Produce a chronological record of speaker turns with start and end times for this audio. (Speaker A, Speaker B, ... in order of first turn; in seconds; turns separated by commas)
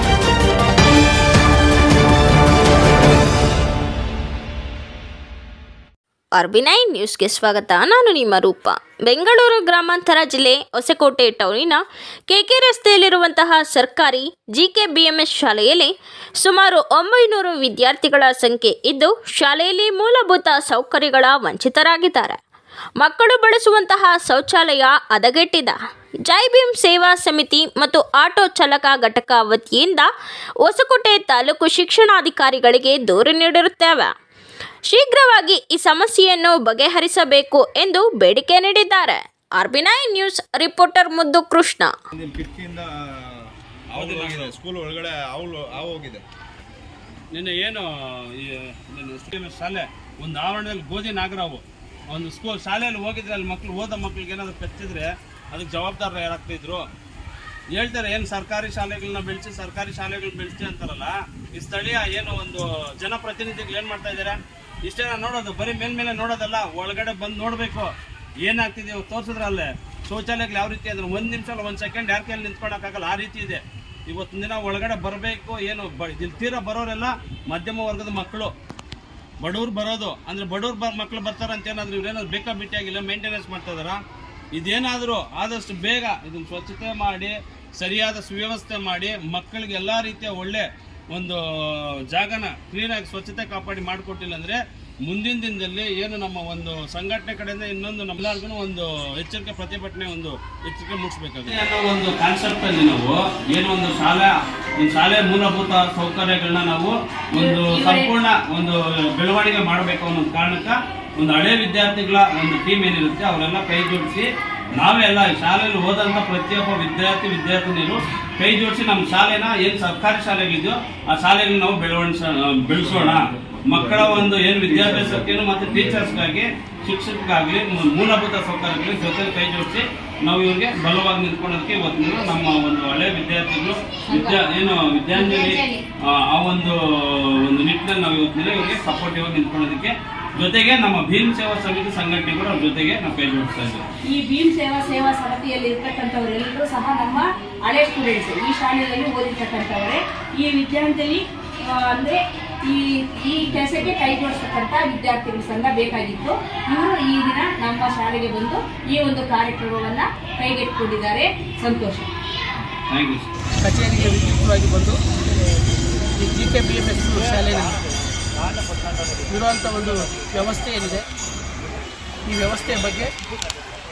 Speaker A: 6.3-22.4, Speaker A: 23.0-25.8, Speaker A: 26.3-30.1, Speaker A: 30.6-34.1, Speaker A: 34.9-41.9, Speaker B: 42.2-42.5, Speaker C: 43.9-44.6, Speaker B: 44.0-46.2, Speaker C: 47.3-56.9, Speaker C: 57.7-67.9, Speaker C: 68.4-78.5, Speaker C: 79.4-84.0, Speaker C: 84.5-143.9, Speaker A: 107.4-108.1, Speaker B: 123.1-126.1, Speaker D: 134.1-134.4, Speaker A: 135.2-135.4, Speaker D: 135.5-135.8, Speaker D: 144.1-162.1, Speaker C: 162.9-163.3, Speaker E: 163.6-165.0, Speaker E: 166.2-167.8, Speaker E: 169.3-171.1, Speaker E: 172.3-173.1